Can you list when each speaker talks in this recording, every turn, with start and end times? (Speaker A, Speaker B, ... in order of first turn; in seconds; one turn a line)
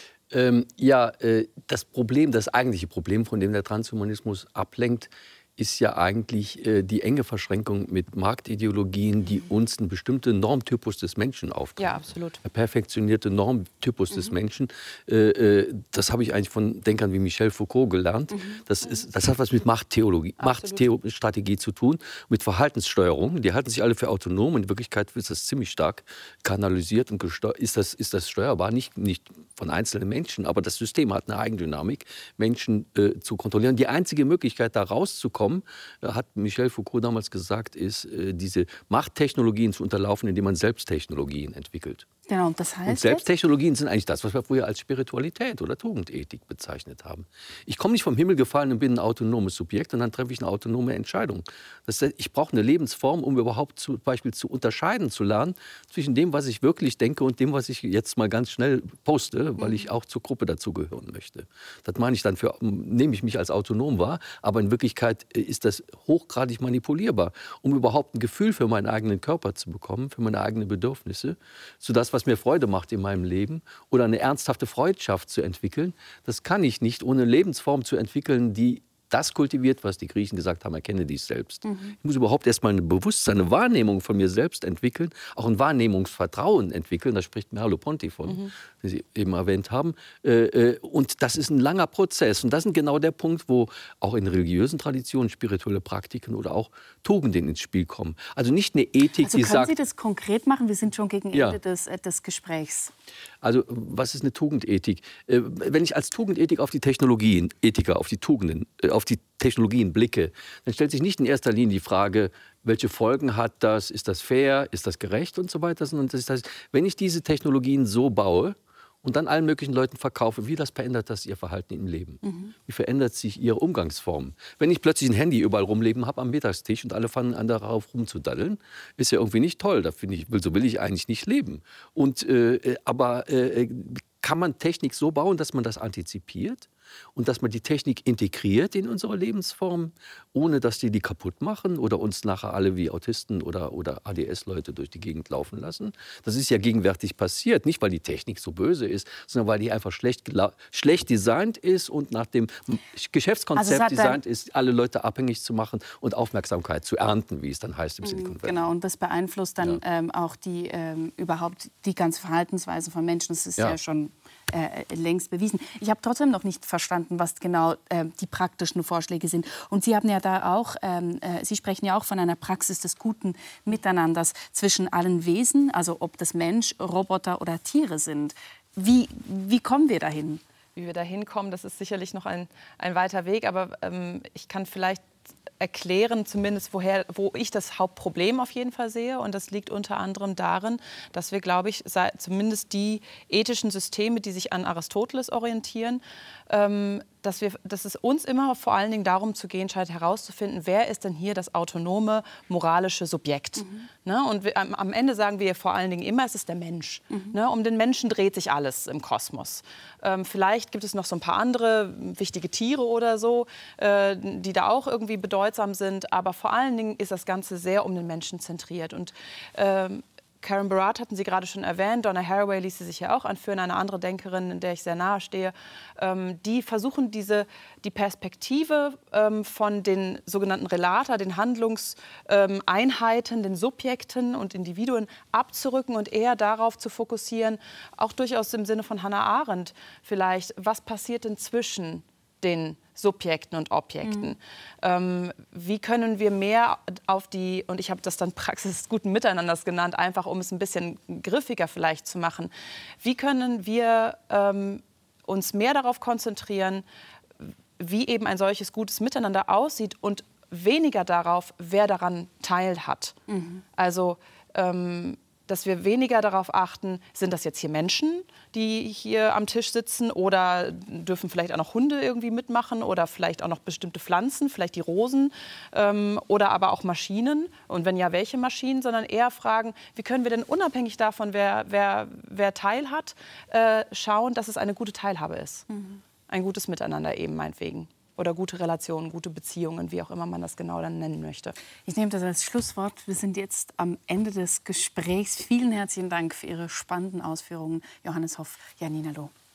Speaker A: 0.3-42.1
Speaker B: 11.8-12.4
Speaker C: 18.3-18.6
Speaker B: 20.4-20.9
Speaker C: 42.3-43.3
Speaker A: 42.9-99.7
Speaker C: 81.7-82.0
Speaker C: 99.2-102.9
Speaker A: 101.3-101.6
Speaker A: 103.4-158.7
Speaker C: 122.2-122.5
Speaker C: 153.6-154.2
Speaker C: 158.0-180.4
Speaker B: 180.8-185.0
Speaker B: 185.6-252.5
Speaker C: 203.6-203.9
Speaker C: 207.1-207.4
Speaker C: 244.0-244.3
Speaker B: 253.0-256.8
Speaker B: 257.4-263.2
Speaker C: 263.3-263.6
Speaker B: 263.8-285.7
Speaker C: 285.7-286.0
Speaker B: 286.3-291.6
Speaker C: 291.9-299.3